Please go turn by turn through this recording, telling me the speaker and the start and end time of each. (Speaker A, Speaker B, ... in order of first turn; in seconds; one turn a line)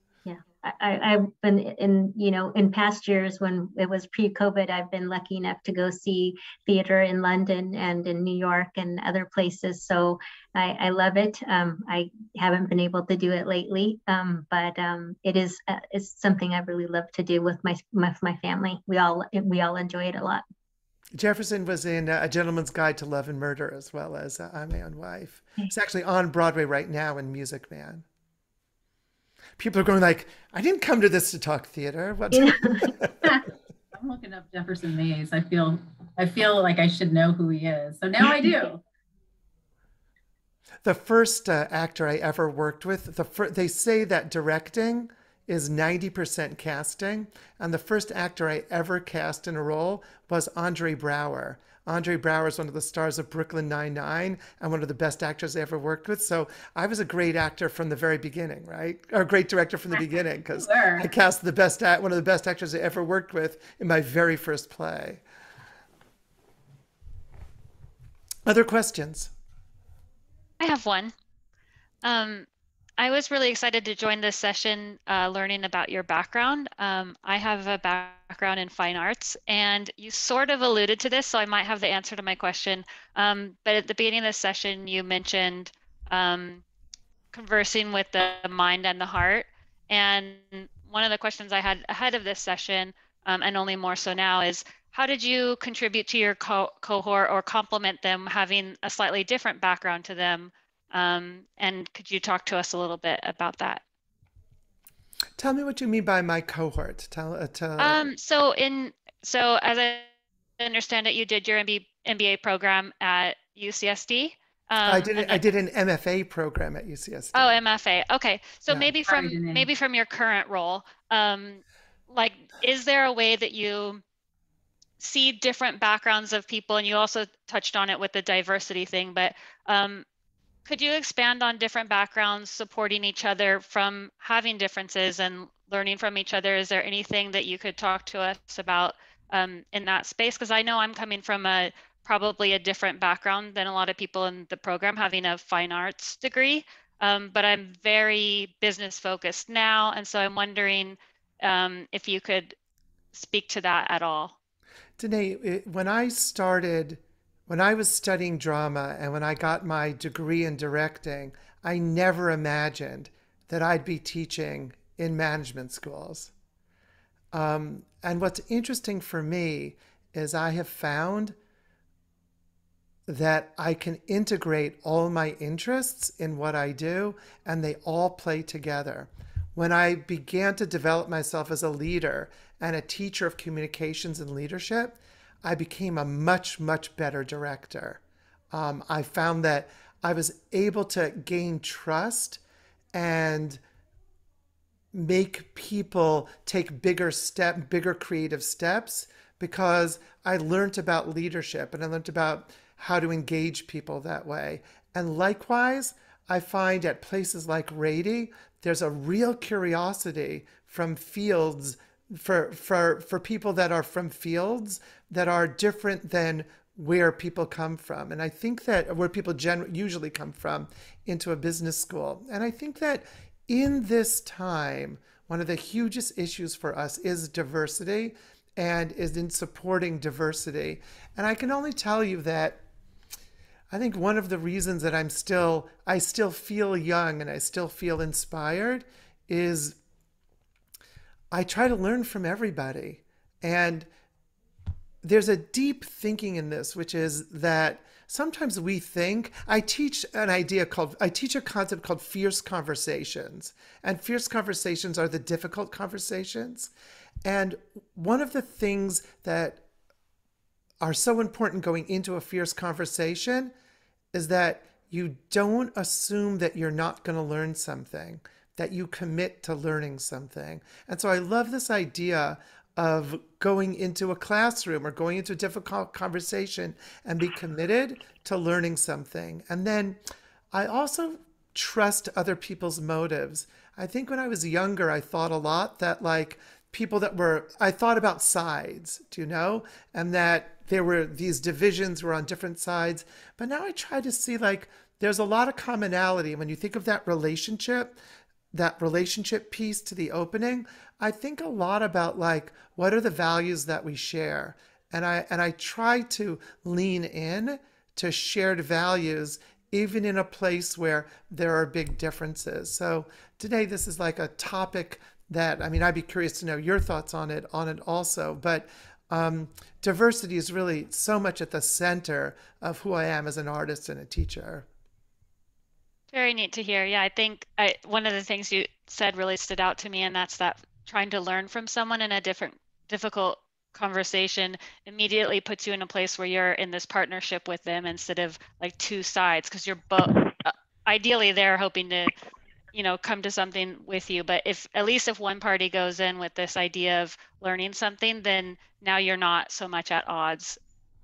Speaker A: 0.2-20.4
Speaker B: 21.1-28.0
Speaker B: 29.6-33.1
Speaker A: 32.3-32.9
Speaker C: 33.9-38.8
Speaker B: 40.8-65.2
Speaker C: 60.6-61.1
Speaker B: 68.5-69.3
Speaker D: 70.6-71.1
Speaker D: 72.0-72.5
Speaker D: 73.0-86.6
Speaker D: 87.3-103.8
Speaker B: 105.4-108.1
Speaker D: 107.8-110.1
Speaker D: 110.6-115.4
Speaker B: 114.8-117.6
Speaker D: 117.3-124.0
Speaker C: 119.0-119.7
Speaker D: 125.0-130.0
Speaker D: 130.7-152.5
Speaker D: 153.1-154.3
Speaker B: 155.0-166.3
Speaker B: 167.3-171.3
Speaker B: 173.1-192.4
Speaker B: 192.9-193.6
Speaker B: 194.9-232.6
Speaker B: 233.7-239.8
Speaker B: 241.3-243.9
Speaker B: 245.0-256.7
Speaker B: 257.2-259.6
Speaker B: 260.8-263.5
Speaker B: 264.1-280.0
Speaker B: 280.5-298.0
Speaker B: 298.5-324.7
Speaker D: 326.1-342.1
Speaker D: 342.7-350.6